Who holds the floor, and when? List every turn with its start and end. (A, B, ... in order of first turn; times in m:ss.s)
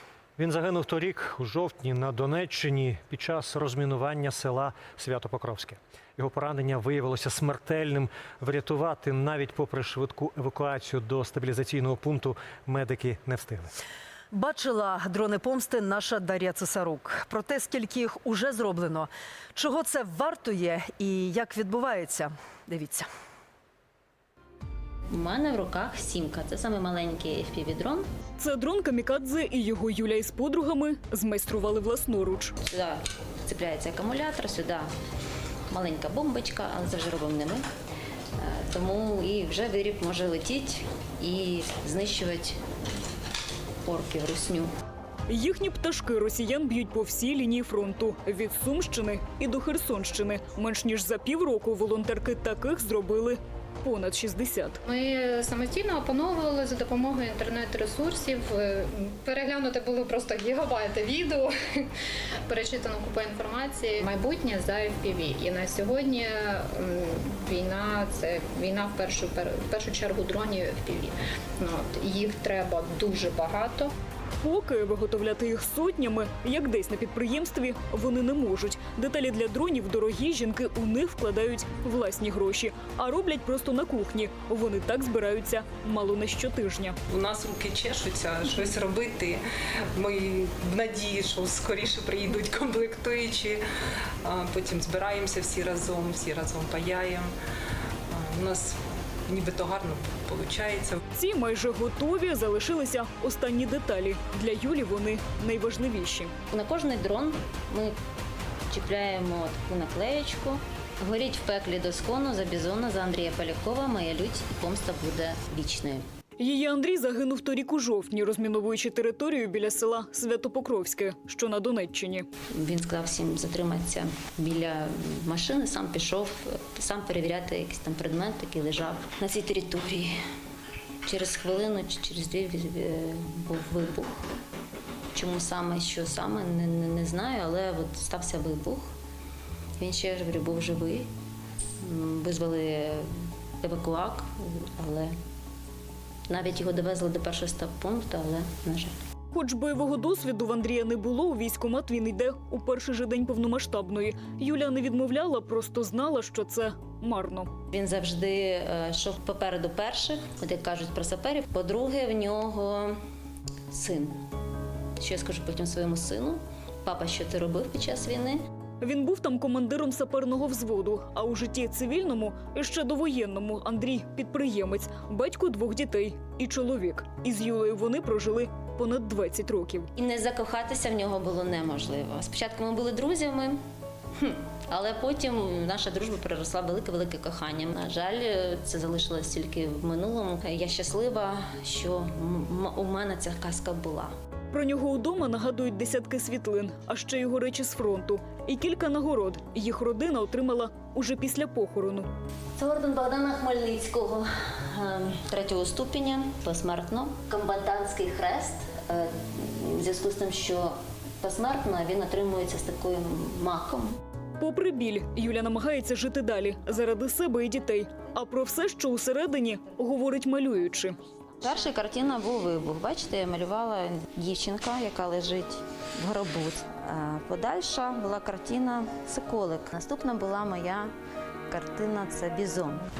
0:00.4-0:13.7 A
0:14.3-0:23.1 B
0:25.1-0:28.1 C
0:28.4-0:32.6 D
0:32.6-0:34.9 C
0:35.7-0:37.6 C
0:38.4-0:42.6 C
0:43.8-0:44.7 C
0:45.3-0:54.8 D
0:54.9-1:01.5 E
1:02.5-1:13.9 E
1:14.4-1:27.0 D
1:27.1-1:29.4 F
1:30.0-1:33.6 F
1:34.2-1:37.3 F
1:38.1-1:41.0 F
1:41.1-1:46.3 D
1:46.5-1:47.9 C
1:48.7-1:56.0 C
1:56.4-2:02.3 D
2:02.5-2:10.2 C
2:11.0-2:14.2 C
2:15.1-2:18.9 C
2:19.8-2:21.1 C
2:21.8-2:23.1 C
2:23.6-2:25.1 C
2:26.3-2:28.9 C
2:29.3-2:37.5 D
2:37.7-2:43.0 C
2:43.7-2:44.2 C
2:45.0-2:48.4 C
2:48.8-2:59.9 D
2:59.9-3:03.6 C
3:04.2-3:14.1 C
3:14.5-3:22.1 D
3:22.6-3:34.0 C
3:34.4-3:41.0 D
3:41.4-3:50.9 C
3:51.5-3:52.9 C